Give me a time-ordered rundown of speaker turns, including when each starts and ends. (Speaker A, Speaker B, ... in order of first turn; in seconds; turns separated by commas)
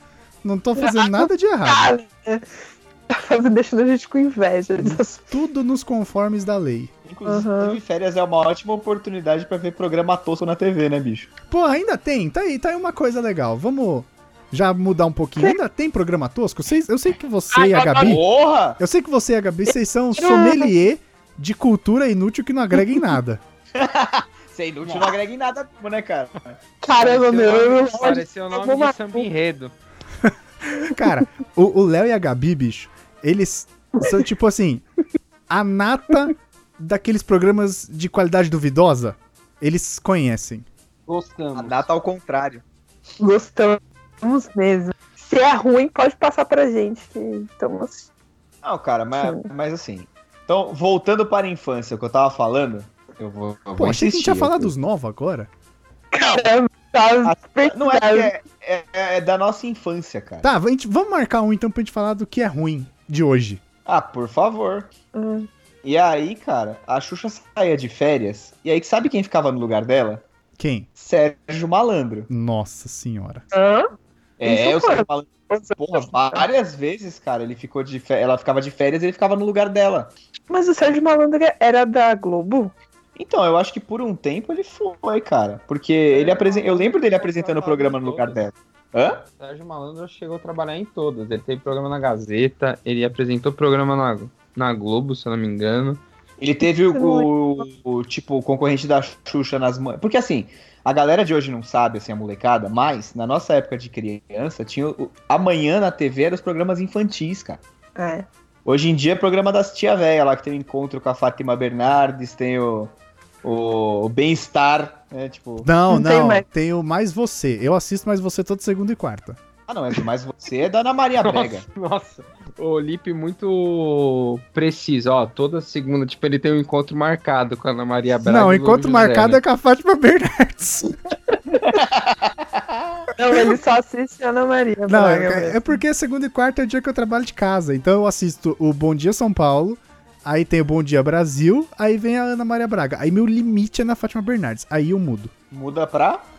Speaker A: 0.4-1.9, Speaker B: 0.8-2.4, Speaker B: 3.1-5.2, Speaker A: 4.8-6.9, Speaker C: 7.0-11.3, Speaker B: 7.2-7.8, Speaker A: 11.5-18.2, Speaker B: 17.5-18.1, Speaker C: 18.0-18.8, Speaker A: 18.8-23.4, Speaker B: 20.2-20.7, Speaker C: 23.7-26.6, Speaker D: 24.9-25.1, Speaker B: 26.8-29.2, Speaker D: 27.0-29.7, Speaker A: 30.2-34.9, Speaker A: 35.5-40.6, Speaker D: 41.1-41.9, Speaker C: 41.5-42.6, Speaker B: 43.2-48.1, Speaker C: 48.6-54.7, Speaker A: 53.8-55.5, Speaker B: 56.1-58.3, Speaker C: 57.2-60.5, Speaker A: 60.4-63.6, Speaker C: 63.9-64.9, Speaker B: 65.1-65.5, Speaker C: 65.8-70.2, Speaker A: 70.6-70.9, Speaker C: 71.0-72.3, Speaker A: 72.3-73.4, Speaker B: 73.5-73.9, Speaker C: 74.4-80.1, Speaker B: 74.4-76.5, Speaker B: 80.5-82.7, Speaker C: 83.2-89.2, Speaker D: 86.1-88.4, Speaker D: 89.4-96.0, Speaker C: 96.4-107.6, Speaker B: 96.9-97.3, Speaker B: 108.0-108.2, Speaker C: 108.6-115.7, Speaker A: 115.6-119.4, Speaker B: 115.9-116.4, Speaker C: 119.7-121.7, Speaker D: 121.2-129.4, Speaker A: 128.2-130.9, Speaker B: 131.5-131.8, Speaker C: 131.7-133.0, Speaker B: 133.2-135.8, Speaker A: 134.9-145.3, Speaker C: 145.5-146.2